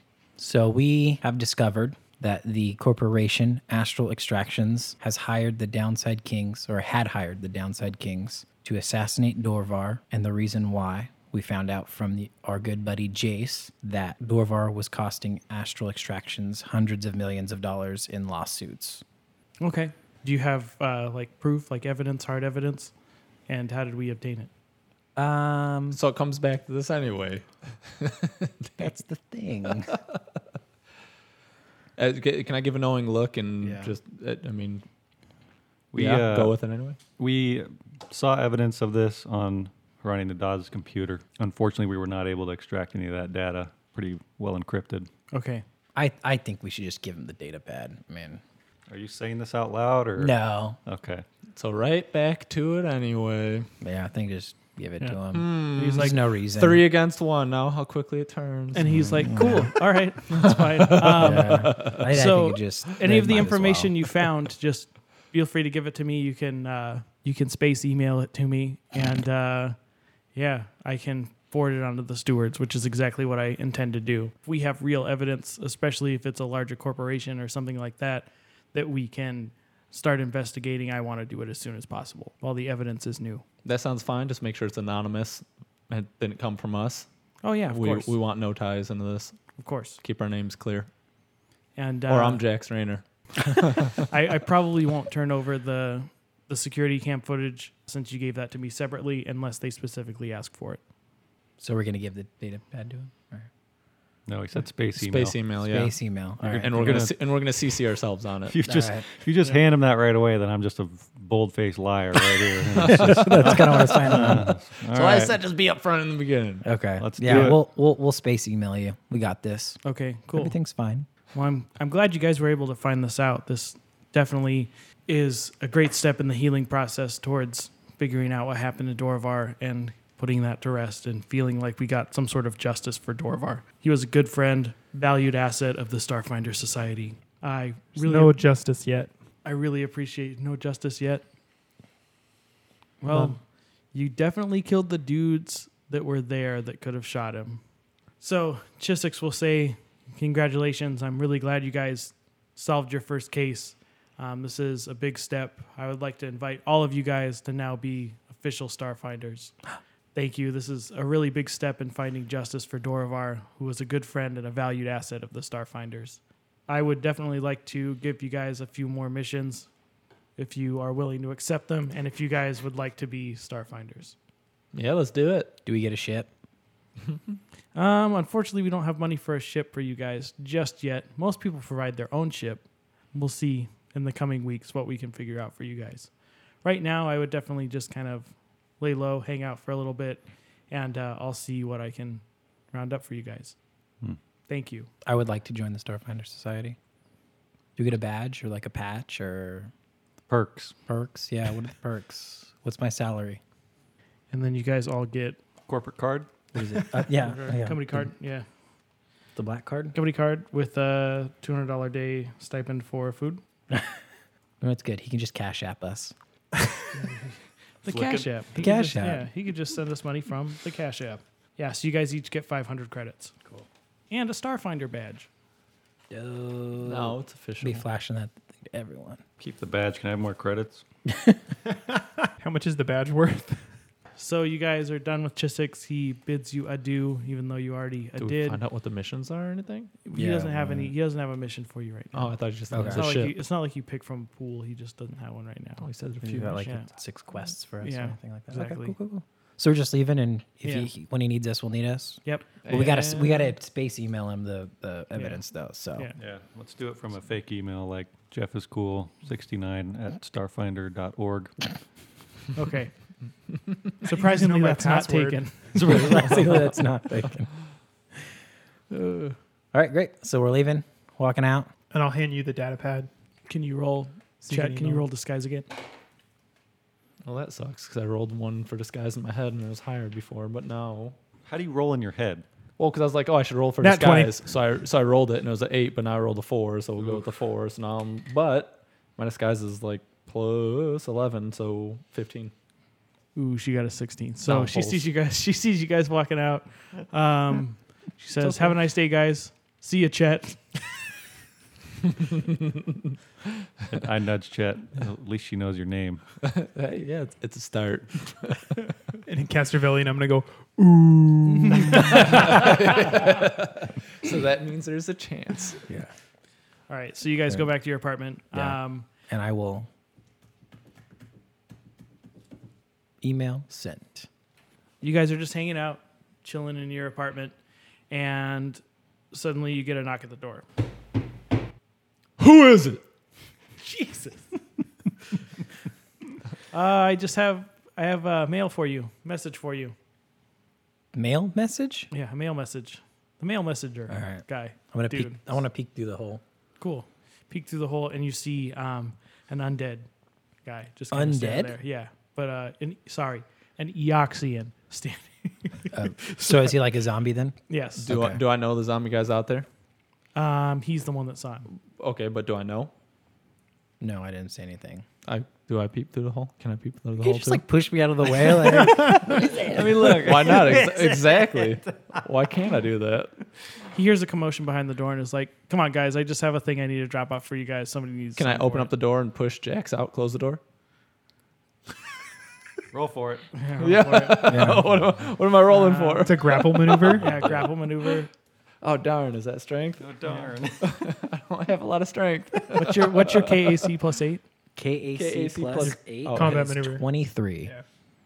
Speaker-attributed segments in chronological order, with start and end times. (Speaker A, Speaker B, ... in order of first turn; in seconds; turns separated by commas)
Speaker A: 0.4-19.0, Speaker B: 19.6-22.9, Speaker B: 23.5-24.5, Speaker A: 25.2-26.0, Speaker C: 25.9-28.9, Speaker A: 28.8-30.0, Speaker C: 32.0-34.8, Speaker A: 33.6-33.9, Speaker D: 35.9-36.6, Speaker C: 36.0-37.0, Speaker D: 37.2-45.1, Speaker B: 45.3-45.6, Speaker A: 46.0-48.4, Speaker D: 48.9-51.2, Speaker A: 50.2-50.8, Speaker C: 51.5-53.7, Speaker A: 53.8-56.9, Speaker C: 55.3-58.9, Speaker B: 55.7-56.2, Speaker B: 58.7-69.8, Speaker A: 59.2-59.7, Speaker C: 60.3-62.0, Speaker A: 61.2-63.9, Speaker B: 70.3-83.4, Speaker C: 83.6-87.1, Speaker B: 87.4-88.2, Speaker C: 87.7-89.4, Speaker B: 89.6-90.0, Speaker C: 90.0-90.9, Speaker B: 91.8-92.4, Speaker C: 92.1-94.0, Speaker B: 94.0-100.8, Speaker A: 101.6-103.5, Speaker D: 104.3-105.4, Speaker C: 105.0-108.6, Speaker A: 105.6-107.1, Speaker D: 106.4-107.2, Speaker D: 108.5-115.4, Speaker A: 108.7-109.0, Speaker A: 112.8-114.5, Speaker C: 112.8-113.6, Speaker C: 114.9-116.7, Speaker A: 116.6-119.8, Speaker D: 117.0-117.6, Speaker B: 119.8-120.5, Speaker A: 120.3-121.1, Speaker B: 121.3-138.4, Speaker E: 138.0-139.1, Speaker B: 139.4-141.2, Speaker B: 143.0-143.4, Speaker B: 143.9-147.6, Speaker B: 148.2-159.6, Speaker B: 160.1-169.7, Speaker B: 170.4-174.2, Speaker C: 174.7-175.6, Speaker A: 175.7-176.3, Speaker B: 177.7-186.1, Speaker B: 186.6-193.6, Speaker B: 194.5-194.9, Speaker A: 195.1-196.8, Speaker A: 197.8-199.7, Speaker D: 200.3-200.8, Speaker A: 200.9-203.4, Speaker B: 204.3-205.4, Speaker D: 205.7-206.3, Speaker A: 206.5-208.1, Speaker B: 207.1-208.5, Speaker A: 209.4-210.0, Speaker B: 209.9-213.4, Speaker A: 213.7-214.0, Speaker A: 214.6-216.2, Speaker B: 217.8-223.3, Speaker D: 217.9-218.3, Speaker A: 218.6-219.3, Speaker B: 224.1-225.3, Speaker A: 226.1-229.2, Speaker C: 226.8-227.8, Speaker D: 229.4-230.8, Speaker A: 231.1-231.4, Speaker E: 232.4-233.7, Speaker B: 234.2-238.6, Speaker C: 238.2-239.9, Speaker B: 240.0-245.9, Speaker A: 240.2-240.9, Speaker C: 242.1-243.3, Speaker A: 242.7-243.1, Speaker C: 245.8-246.7, Speaker A: 246.2-256.1, Speaker B: 246.6-246.9, Speaker B: 247.8-248.9, Speaker B: 250.6-250.9, Speaker C: 252.7-253.5, Speaker B: 255.2-255.4, Speaker D: 256.2-261.7, Speaker B: 262.6-262.9, Speaker B: 264.0-266.4, Speaker E: 264.1-265.6, Speaker D: 265.8-266.6, Speaker A: 265.8-267.5, Speaker C: 268.9-269.4, Speaker A: 269.7-271.7, Speaker E: 271.9-273.1, Speaker B: 273.5-275.7, Speaker E: 274.4-275.0, Speaker C: 277.2-281.2, Speaker D: 281.5-282.4, Speaker C: 282.8-292.5, Speaker E: 283.8-284.4, Speaker B: 293.4-301.0, Speaker C: 294.5-295.0, Speaker C: 298.4-298.7, Speaker D: 303.9-306.2, Speaker C: 306.4-308.8, Speaker E: 309.2-312.7, Speaker B: 311.5-312.4, Speaker C: 312.1-315.9, Speaker B: 316.9-319.1, Speaker A: 318.5-319.9, Speaker A: 323.2-324.3, Speaker B: 325.0-327.6, Speaker B: 328.1-330.6, Speaker C: 332.4-333.0, Speaker B: 333.8-334.5, Speaker B: 336.7-339.9, Speaker A: 341.1-342.1, Speaker B: 342.1-345.4, Speaker A: 344.1-346.4, Speaker B: 346.8-350.1, Speaker B: 350.6-356.8, Speaker A: 351.1-351.8, Speaker A: 355.9-358.4, Speaker B: 357.7-358.1, Speaker C: 358.0-359.7, Speaker B: 360.4-361.7, Speaker C: 362.0-362.9, Speaker A: 364.0-365.1, Speaker C: 365.2-367.6, Speaker A: 367.2-370.7, Speaker C: 369.4-373.4, Speaker D: 370.0-371.5, Speaker B: 373.9-378.9, Speaker C: 378.4-380.6, Speaker D: 382.9-383.5, Speaker B: 383.5-384.8, Speaker C: 383.8-387.7, Speaker A: 384.5-384.9, Speaker B: 385.7-388.3, Speaker E: 386.2-387.3, Speaker C: 388.8-390.1, Speaker D: 390.0-390.9, Speaker C: 390.8-393.8, Speaker B: 392.8-394.4, Speaker A: 394.8-397.7, Speaker C: 395.1-396.8, Speaker E: 396.3-397.1